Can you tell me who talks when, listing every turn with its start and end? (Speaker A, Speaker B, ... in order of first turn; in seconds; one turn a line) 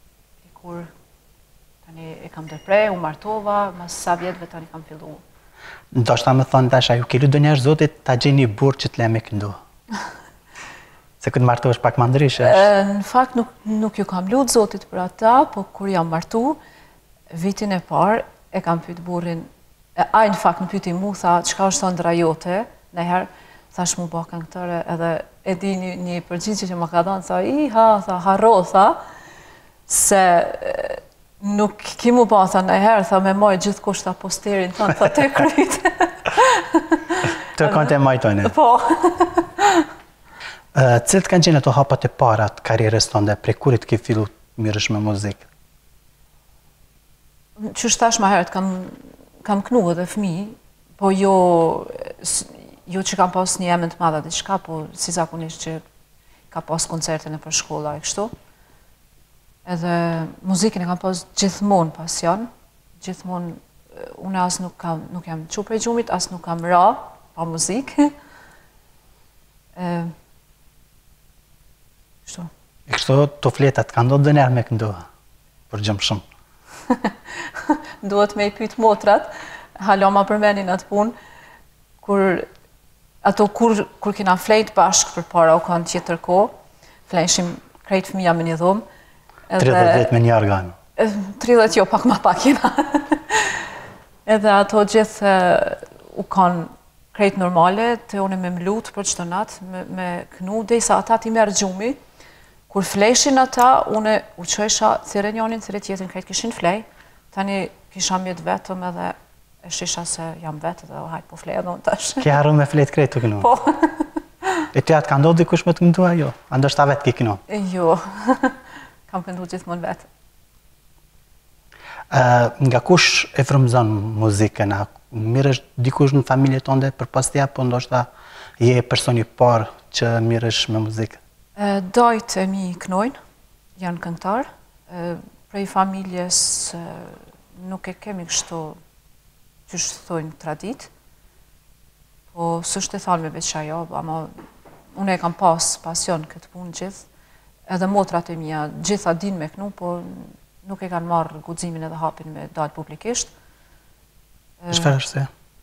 Speaker A: 0.4-0.9
Speaker A: 1.8-5.2
Speaker B: 5.9-9.6
Speaker B: 11.2-12.6
Speaker A: 12.4-16.6
Speaker A: 17.3-29.0
Speaker A: 29.9-39.9
Speaker B: 37.5-38.5
Speaker B: 40.7-45.5
Speaker A: 47.6-55.8
Speaker A: 56.5-58.3
Speaker A: 59.6-62.5
Speaker A: 63.0-68.1
Speaker A: 69.8-70.1
Speaker B: 72.9-75.1
Speaker B: 75.7-76.2
Speaker A: 76.9-81.2
Speaker A: 82.0-82.5
Speaker A: 83.2-86.5
Speaker A: 87.1-88.8
Speaker A: 89.5-90.1
Speaker B: 89.6-90.8
Speaker A: 91.0-93.7
Speaker A: 94.2-102.0
Speaker A: 102.7-112.3
Speaker B: 112.2-113.5
Speaker A: 113.4-114.1
Speaker B: 114.7-117.4
Speaker A: 117.5-120.1
Speaker B: 122.1-131.2
Speaker A: 131.6-133.2
Speaker A: 133.8-138.8
Speaker A: 139.7-140.9
Speaker A: 142.3-144.3
Speaker A: 144.9-147.1
Speaker A: 147.7-153.3
Speaker A: 154.6-154.9
Speaker B: 154.7-155.3